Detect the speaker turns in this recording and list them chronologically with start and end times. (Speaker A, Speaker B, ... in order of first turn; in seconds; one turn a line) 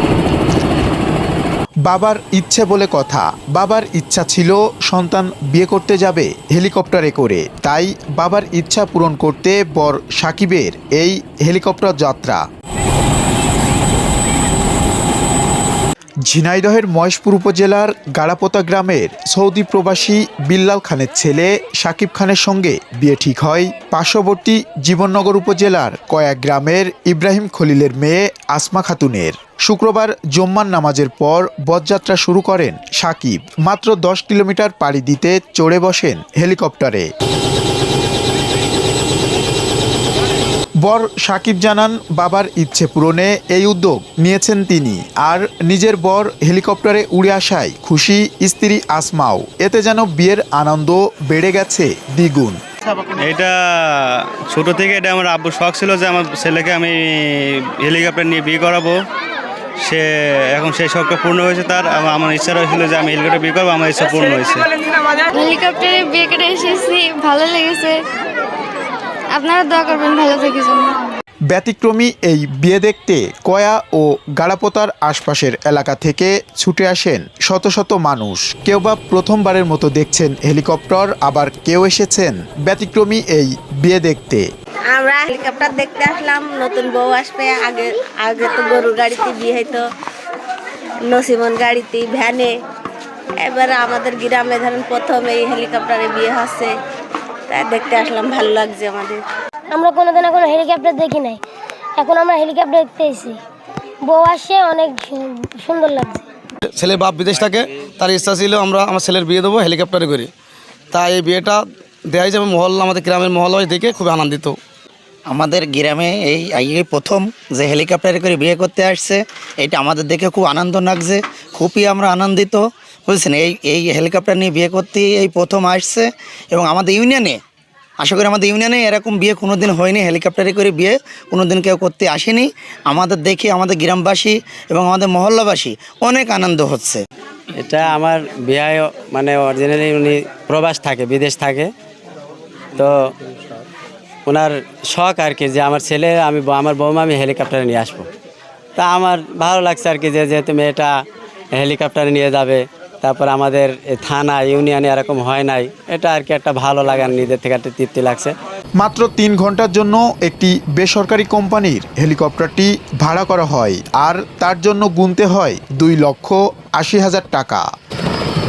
Speaker A: 1.8-12.4
Speaker A: 16.2-37.1
Speaker A: 40.8-52.6
Speaker B: 53.2-59.0
Speaker B: 59.8-64.7
Speaker C: 65.3-68.0
Speaker C: 69.3-71.1
Speaker A: 71.5-84.5
Speaker D: 84.9-89.8
Speaker D: 91.1-92.5
Speaker D: 93.4-96.7
Speaker D: 97.5-99.2
Speaker E: 99.7-101.4
Speaker E: 102.0-103.4
Speaker E: 104.0-106.2
Speaker F: 106.7-110.3
Speaker F: 110.9-114.6
Speaker G: 115.3-127.3
Speaker G: 128.0-137.0
Speaker H: 137.6-141.7
Speaker H: 144.2-148.1
Speaker H: 148.8-150.9
Speaker H: 151.5-158.3
Speaker A: 158.8-167.6